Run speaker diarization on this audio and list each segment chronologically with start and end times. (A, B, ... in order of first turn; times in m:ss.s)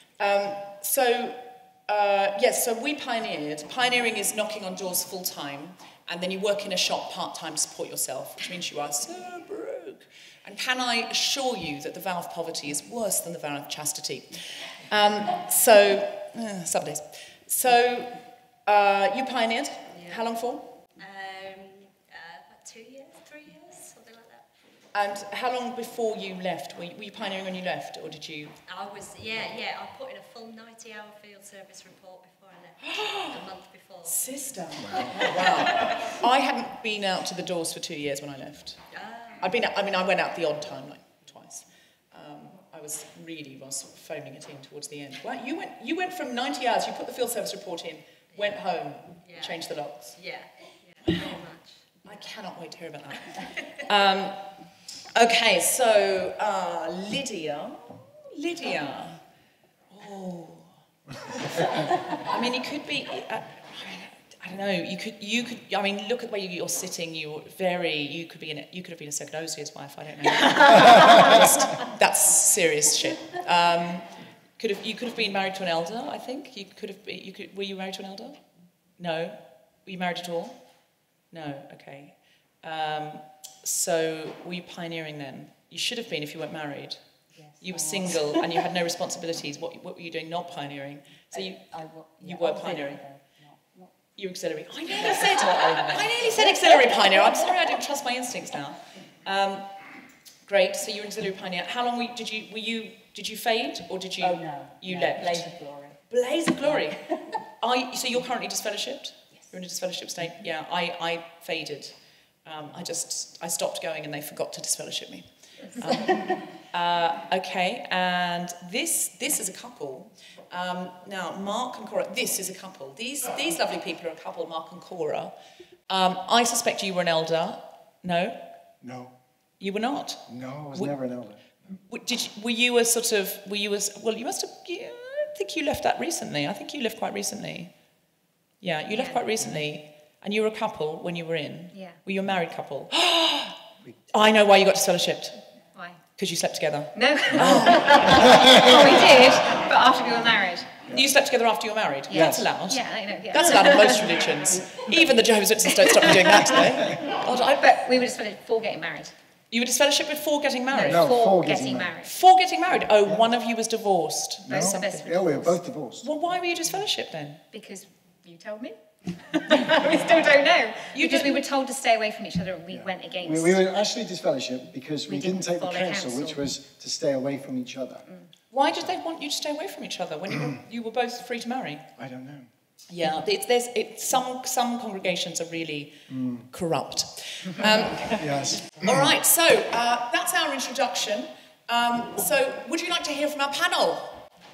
0:00.2-0:20.8 A
0:19.9-0:20.2 B
0:21.0-0:24.4 B
0:24.9-0:28.6 A
0:28.7-0:34.2 B
0:32.8-0:33.4 A
0:34.0-0:38.8 A
0:34.8-0:35.2 C
0:35.2-0:36.1 B
0:38.9-0:39.4 B
0:39.4-0:50.2 A
0:49.2-0:49.6 B
0:50.1-0:51.8 B
0:51.0-0:51.3 A
0:52.0-0:54.4 A
0:55.1-0:59.2 A
0:59.9-1:00.7 A
1:01.3-1:18.4 A
1:19.0-1:20.6 A
1:21.3-1:27.0 A
1:27.6-1:33.0 A
1:31.8-1:33.6 D
1:34.2-1:39.7 A
1:35.2-1:36.0 D
1:40.4-1:45.5 A
1:44.2-1:45.9 D
1:46.1-1:51.9 A
1:52.4-2:05.3 A
2:05.9-2:08.4 A
2:08.8-2:09.1 C
2:09.6-2:10.9 A
2:10.3-2:11.6 C
2:11.9-2:17.7 A
2:18.6-2:23.6 A
2:18.9-2:19.2 E
2:24.1-2:25.4 A
2:26.2-2:29.1 A
2:27.0-2:30.8 E
2:28.4-2:28.6 C
2:30.9-2:37.8 A
2:32.1-2:32.5 C
2:32.1-2:34.1 E
2:36.0-2:36.5 E
2:37.6-2:39.1 E
2:39.5-2:41.1 A
2:40.7-2:42.1 E
2:40.8-2:42.0 C
2:42.0-2:45.5 A
2:44.4-2:46.1 C
2:44.5-2:45.5 E
2:46.0-2:47.4 A
2:47.5-2:53.6 E
2:50.9-2:51.4 A
2:52.7-2:58.1 C
2:55.1-2:56.4 E
2:58.5-3:01.8 A
3:02.0-3:02.5 C
3:02.9-3:14.2 A
3:06.1-3:06.5 C
3:08.1-3:09.1 C